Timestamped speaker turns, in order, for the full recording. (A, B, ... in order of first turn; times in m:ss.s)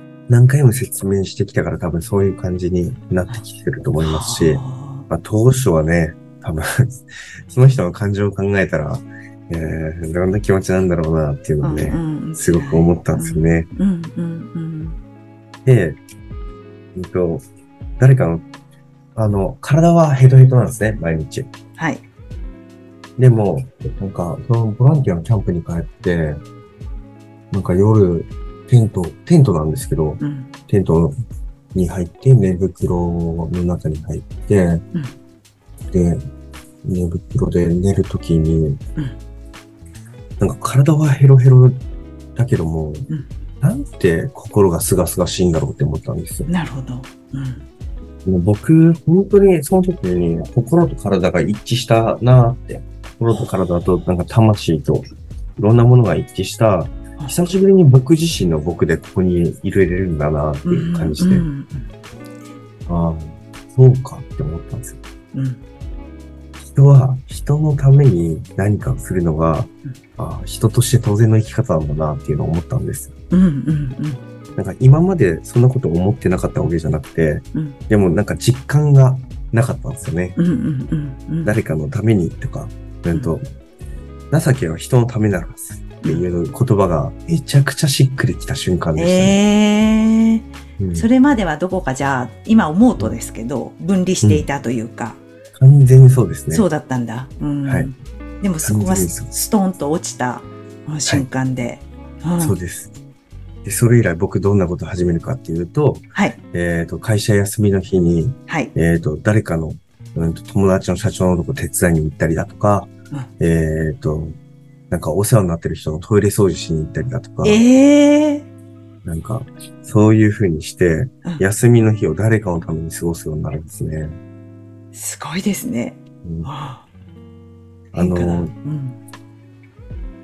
0:00.3-0:13.7 A
0:04.0-0:05.1 B
0:11.6-0:15.0 B
0:15.7-0:16.0 A
0:17.0-0:17.4 A
0:18.0-0:18.4 A
0:19.2-0:21.5 A
0:21.8-0:22.0 B
0:23.2-0:26.4 A
0:27.5-0:31.2 A
0:30.2-0:30.5 B
0:31.7-0:34.8 A
0:35.9-0:36.2 A
0:36.8-0:38.8 A
0:40.4-0:41.8 A
0:42.4-0:43.1 A
0:43.6-0:46.5 A
0:46.5-0:47.6 B
0:48.3-0:55.0 A
0:55.6-1:01.5 A
1:00.6-1:01.9 B
1:02.9-1:05.0 A
1:05.3-1:05.6 B
1:06.6-1:13.1 A
1:13.3-1:14.2 B
1:14.6-1:20.4 A
1:20.4-1:21.5 B
1:21.4-1:23.4 A
1:24.3-1:29.4 A
1:29.0-1:35.2 B
1:30.8-1:31.1 A
1:35.6-1:36.7 A
1:36.5-1:42.6 B
1:38.6-1:39.3 A
1:42.4-1:42.9 A
1:43.6-1:54.4 A
1:54.9-1:57.6 A
1:57.4-1:58.5 B
1:59.0-2:04.1 A
2:04.9-2:06.8 B
2:06.2-2:06.5 A
2:07.9-2:08.5 A
2:07.9-2:09.0 B